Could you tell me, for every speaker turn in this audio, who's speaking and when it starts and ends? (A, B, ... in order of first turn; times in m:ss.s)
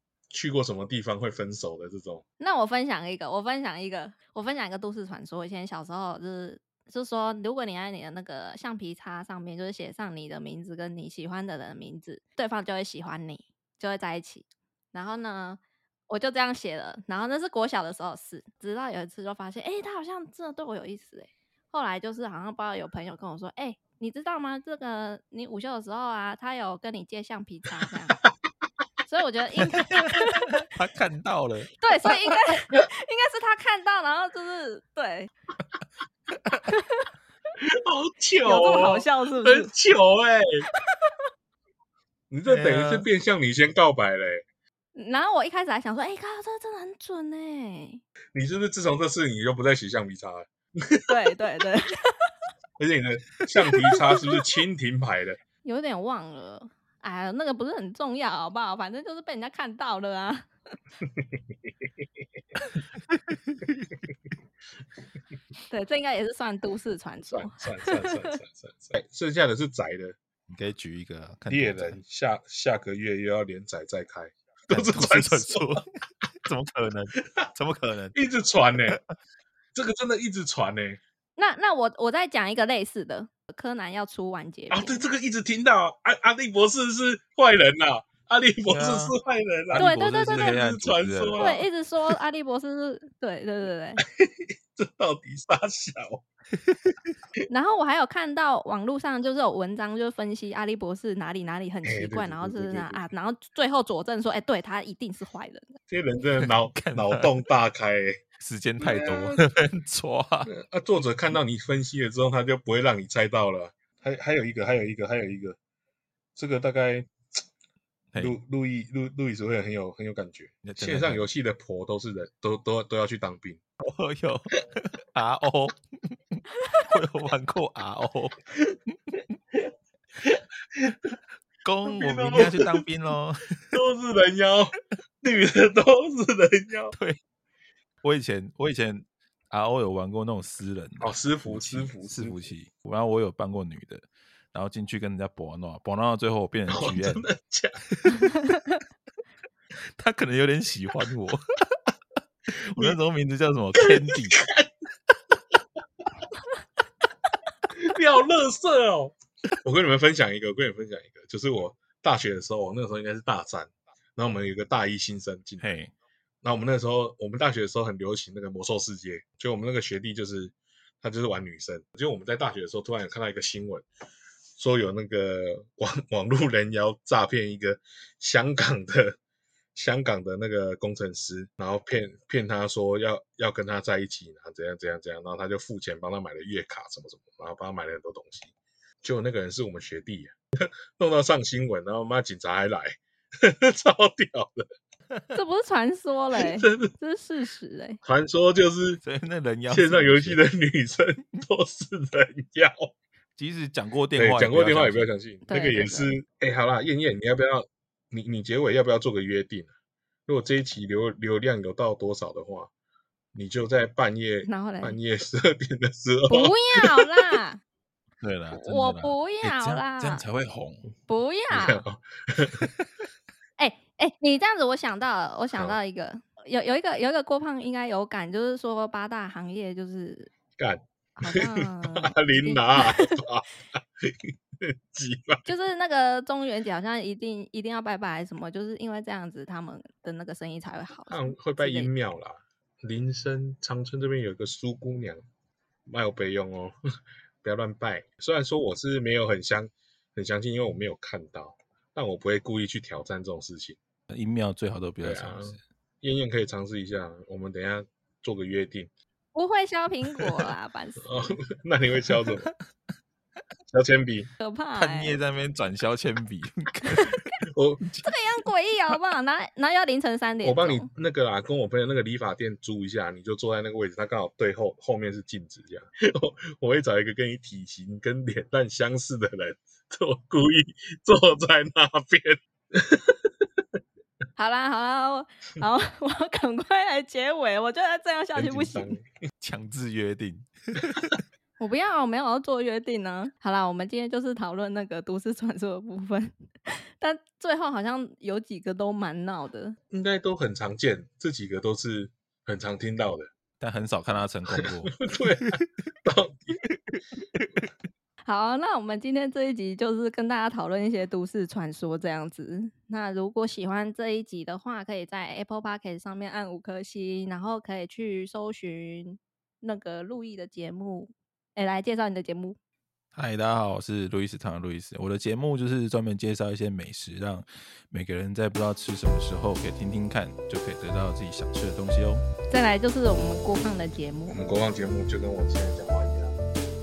0:00.3-0:02.2 A
0:02.4-0:28.2 B
0:29.1-0:30.6 B
0:29.9-0:31.7 C
0:31.8-0:35.3 B
0:36.6-0:37.1 B
0:37.6-0:40.7 A
0:38.4-0:39.7 B
0:42.3-0:44.4 A
0:42.5-0:43.0 C
0:45.0-0:48.0 B
0:48.3-0:51.1 A
0:51.1-0:52.3 B
0:52.8-0:55.4 A
0:55.6-1:00.5 B
1:05.7-1:08.4 B
1:07.3-1:10.2 A
1:10.5-1:12.0 C
1:11.5-1:15.8 A
1:14.7-1:15.8 C
1:16.4-1:18.1 C
1:18.1-1:19.0 A
1:19.7-1:21.0 A
1:21.4-1:25.0 B
1:24.7-1:31.7 A
1:28.7-1:29.1 C
1:29.7-1:31.4 C
1:29.7-1:30.6 B
1:31.4-1:34.0 B
1:34.0-1:36.2 A
1:36.6-1:37.1 C
1:37.5-1:45.8 B
1:41.8-1:43.1 A
1:45.9-1:48.2 A
1:46.4-1:47.4 C
1:48.4-1:50.5 C
1:48.8-1:49.4 A
1:50.4-1:55.6 A
1:56.4-1:57.4 A
1:58.2-2:03.6 A
2:00.6-2:01.2 C
2:03.8-2:08.4 C
2:10.2-2:10.9 A
2:11.6-2:13.6 C
2:11.9-2:12.8 A
2:13.7-2:16.9 A
2:16.9-2:17.2 C
2:18.0-2:27.2 C
2:21.0-2:22.5 A
2:26.7-2:27.8 A
2:27.9-2:28.2 C
2:29.8-2:31.9 C
2:32.5-2:34.4 C
2:33.8-2:34.7 A
2:37.7-2:45.8 A
2:45.6-2:45.9 C
2:46.4-2:53.8 A
2:54.6-2:59.2 A
2:59.7-3:08.5 A
3:09.0-3:14.6 A
3:15.3-3:18.0 B
3:16.4-3:16.9 A
3:18.0-3:19.0 A
3:19.0-3:20.4 C
3:19.7-3:22.9 A
3:23.4-3:25.1 C
3:24.1-3:29.7 A
3:25.5-3:26.1 B
3:30.3-3:32.7 A
3:33.3-3:37.3 A
3:34.5-3:35.0 B
3:36.3-3:37.6 B
3:38.2-3:40.8 C
3:38.5-3:40.2 B
3:41.1-3:41.8 B
3:41.5-3:42.7 A
3:43.6-3:50.3 B
3:50.6-3:55.4 A
3:51.2-3:53.2 B
3:55.4-4:01.9 B
4:01.1-4:05.2 A
4:05.8-4:06.8 A
4:07.4-4:13.8 A
4:14.1-4:15.6 C
4:15.0-4:18.9 A
4:19.3-4:21.4 B
4:21.0-4:22.5 A
4:23.7-4:24.3 A
4:24.4-4:25.2 B
4:24.8-4:27.3 C
4:27.5-4:27.8 A
4:27.8-4:28.1 C
4:28.0-4:30.9 B
4:30.4-4:43.1 A
4:44.4-4:49.0 B
4:48.4-4:49.0 A
4:49.4-4:51.1 C
4:51.6-4:59.8 B
4:59.9-5:03.3 A
5:03.6-5:05.6 C
5:04.5-5:06.6 A
5:06.9-5:07.5 C
5:08.2-5:22.6 B
5:23.1-5:32.2 C
5:32.5-5:34.4 B
5:34.3-5:36.4 A